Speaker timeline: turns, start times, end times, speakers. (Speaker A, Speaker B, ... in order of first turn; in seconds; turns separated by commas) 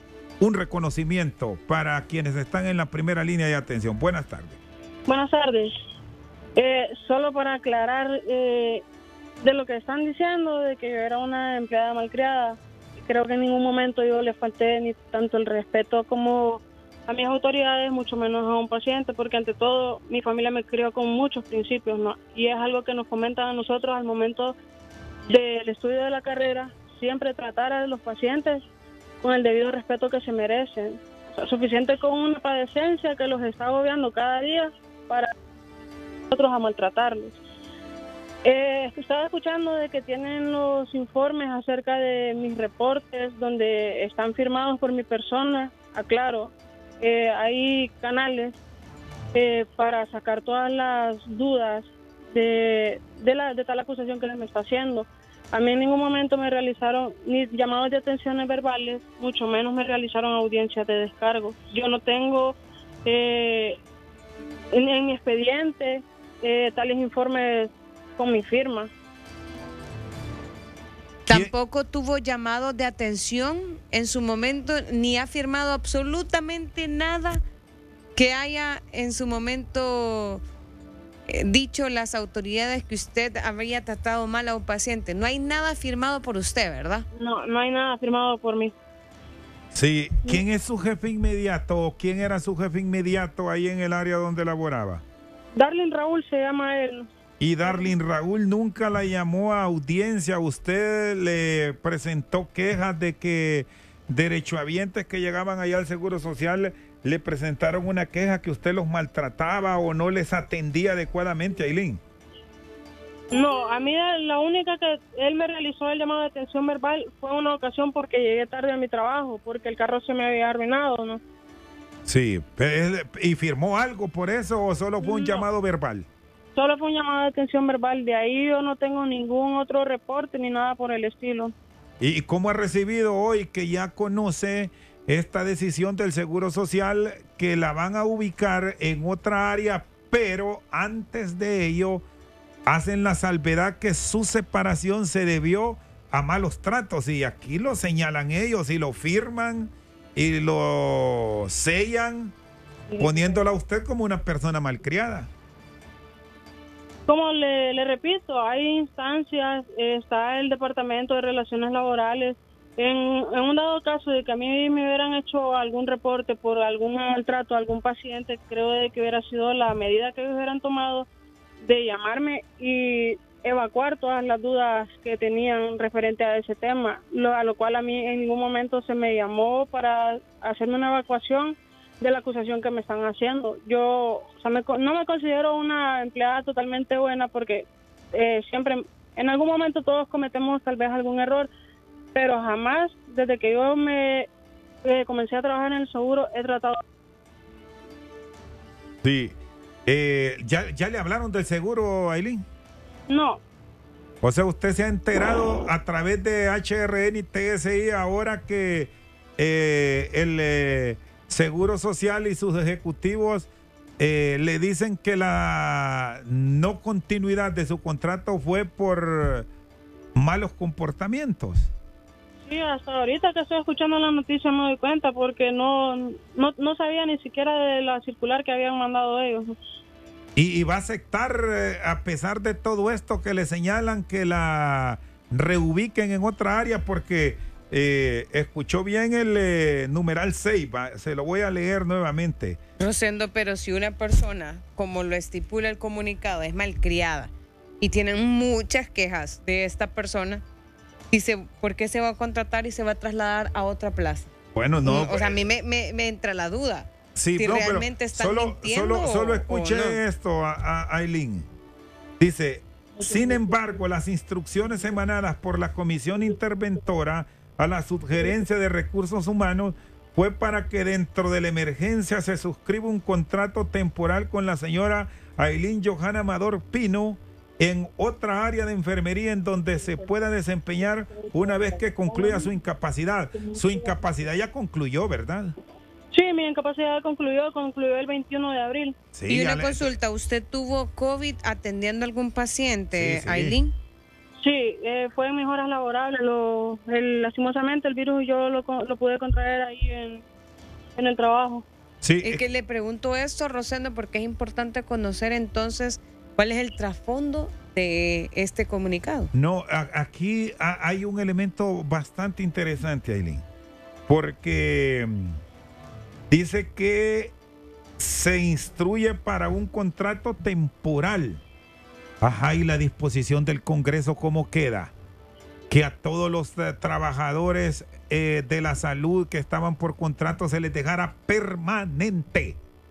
Speaker A: 0.4-4.6, Speaker B: 5.1-5.7, Speaker B: 6.6-8.8, Speaker B: 9.4-24.6, Speaker B: 25.3-28.6, Speaker B: 29.2-35.3, Speaker B: 36.3-37.4, Speaker B: 38.4-48.6, Speaker B: 49.3-63.8, Speaker B: 64.7-68.9, Speaker C: 71.3-77.4, Speaker C: 78.2-80.4, Speaker C: 81.3-87.0, Speaker B: 87.1-88.7, Speaker A: 89.7-95.0, Speaker B: 95.5-97.1, Speaker A: 97.4-112.0, Speaker B: 97.7-97.9, Speaker B: 113.3-121.2, Speaker A: 122.1-126.1, Speaker B: 125.0-125.5, Speaker B: 126.6-131.5, Speaker A: 132.0-142.0, Speaker A: 142.7-152.3, Speaker B: 152.9-153.4, Speaker A: 153.0-155.3, Speaker B: 157.1-171.1, Speaker B: 171.6-191.5, Speaker B: 192.1-194.3, Speaker B: 194.8-196.8, Speaker A: 199.0-202.4, Speaker B: 203.1-203.4, Speaker A: 204.2-219.5, Speaker A: 220.2-221.7, Speaker B: 222.5-229.6, Speaker A: 230.4-242.6, Speaker C: 242.8-250.4, Speaker C: 251.1-254.3, Speaker A: 254.6-255.4, Speaker C: 254.8-260.0, Speaker A: 257.1-261.5, Speaker A: 262.2-285.6, Speaker B: 282.1-282.4, Speaker B: 286.1-289.0, Speaker A: 289.1-289.9, Speaker C: 289.3-293.7, Speaker A: 293.0-293.6, Speaker B: 294.4-300.2, Speaker B: 301.0-301.6, Speaker A: 302.0-302.4, Speaker C: 302.2-309.3, Speaker A: 309.3-313.4, Speaker A: 314.1-315.4, Speaker A: 316.3-317.3, Speaker A: 318.0-321.4, Speaker A: 322.2-324.9, Speaker A: 325.7-332.6